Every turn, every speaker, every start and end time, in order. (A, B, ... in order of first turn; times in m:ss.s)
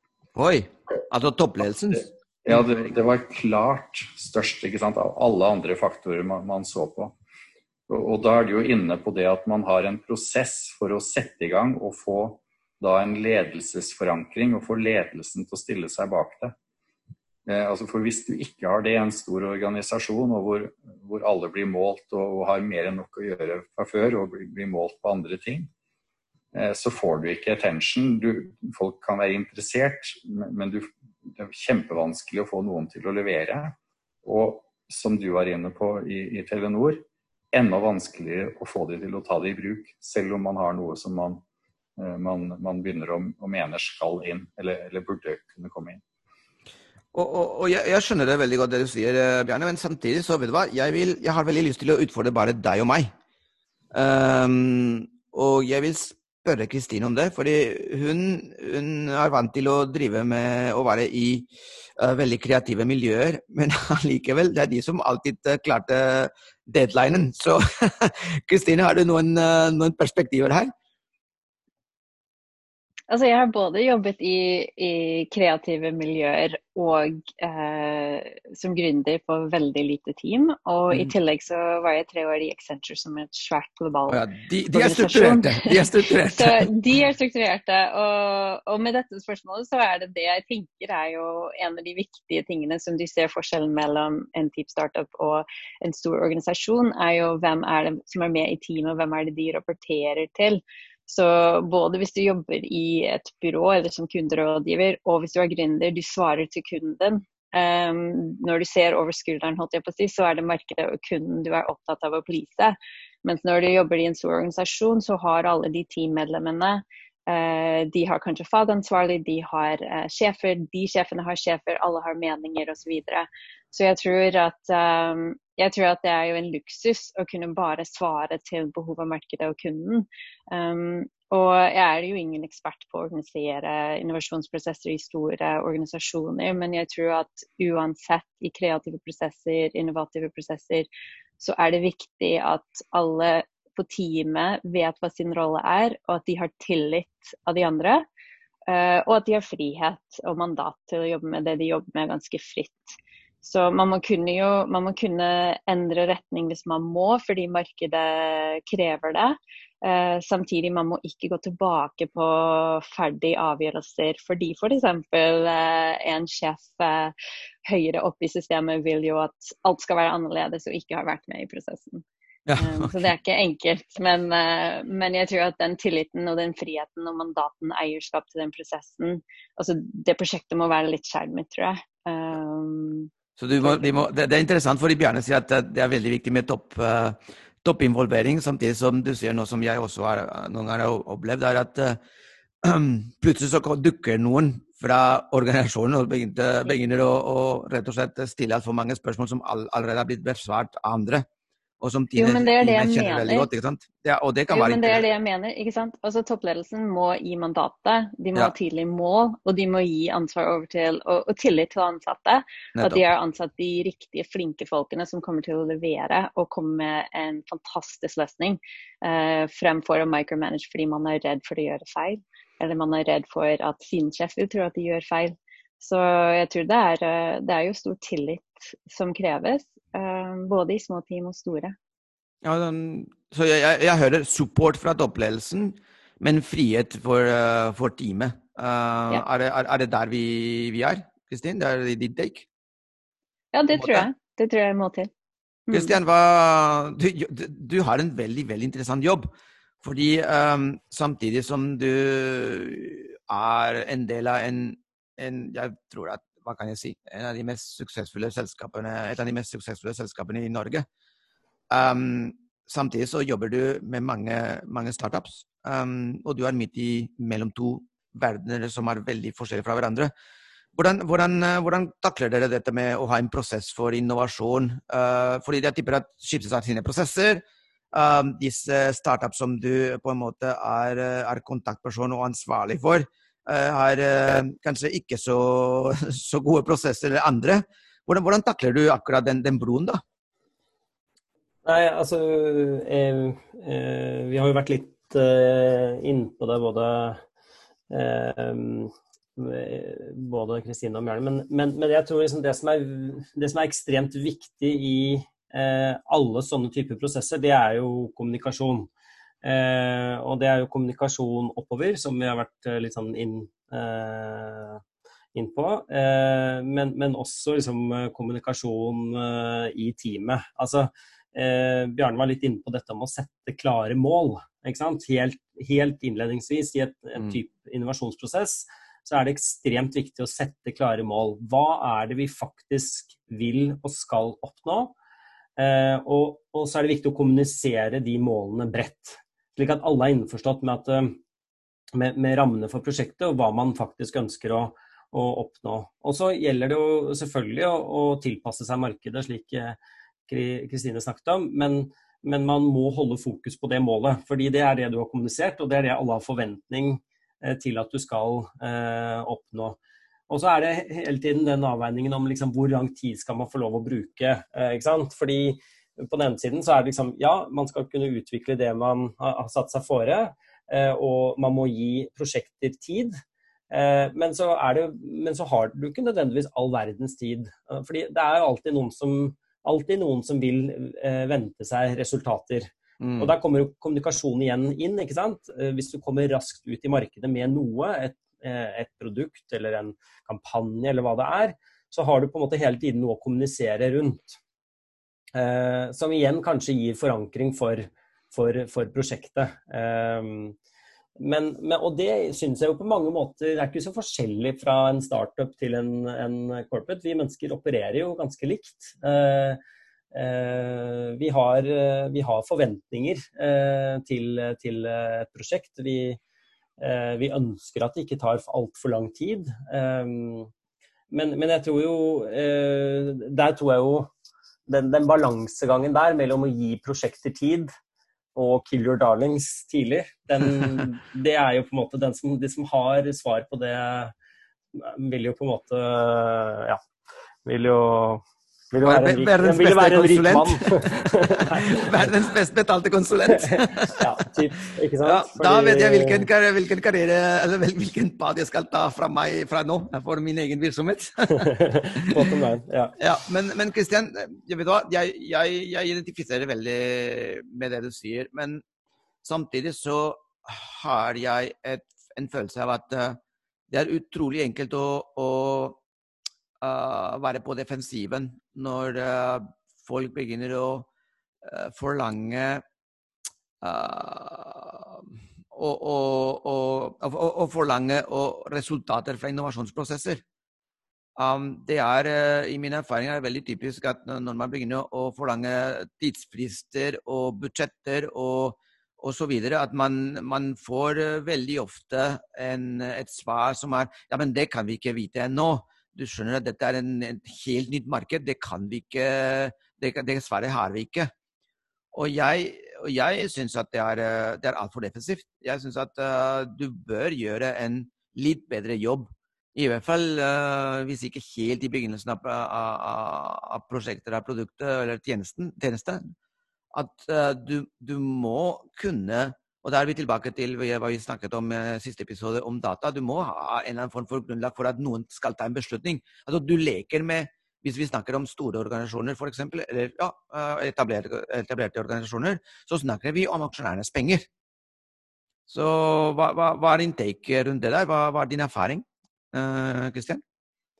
0:00.4-0:02.6 A
0:02.4-0:07.1 B
0:07.9-0:16.5 B
0:17.5-0:25.7 B
0:26.5-0:41.4 B
0:42.0-0:46.0 B
0:47.1-0:53.1 A
0:53.9-1:10.7 A
1:13.1-2:20.9 C
1:24.1-1:26.7 A
2:21.4-2:28.0 C
2:28.7-2:47.1 C
2:47.6-2:52.0 C
2:52.4-2:52.9 A
2:52.6-3:04.0 C
3:03.4-3:12.0 A
3:12.6-3:21.2 A
3:21.8-3:25.0 A
3:22.2-3:23.5 C
3:24.5-3:51.7 C
3:52.4-4:02.5 A
4:03.5-4:05.1 C
4:03.8-4:04.1 A
4:05.7-4:05.9 C
4:05.7-4:09.3 A
4:09.8-4:20.8 A
4:21.7-4:30.1 A
4:30.7-4:50.0 A
4:51.6-4:57.2 D
4:57.9-5:08.9 D
5:09.4-5:14.8 D
5:15.3-5:34.9 D
5:35.6-5:41.2 D
5:41.9-5:49.8 D
5:50.3-5:59.8 D
6:00.3-6:34.4 D
6:23.0-6:23.3 A
6:35.3-6:40.6 D
6:41.2-6:49.6 D
6:50.1-6:56.2 D
6:56.8-7:00.5 D
7:01.1-7:04.1 D
7:04.7-7:07.7 D
7:08.3-7:14.1 D
7:14.7-7:16.8 D
7:17.4-7:22.0 D
7:18.8-7:24.0 A
7:23.3-7:26.3 D
7:25.0-7:32.3 A
7:31.3-7:32.9 D
7:33.0-7:38.6 A
7:39.2-7:43.2 A
7:43.7-7:45.8 A
7:46.6-7:50.9 A
7:51.4-7:52.6 A
7:53.6-8:00.2 A
8:01.2-8:21.1 A
8:21.9-8:36.1 A
8:36.7-8:54.2 A
8:55.5-9:00.2 A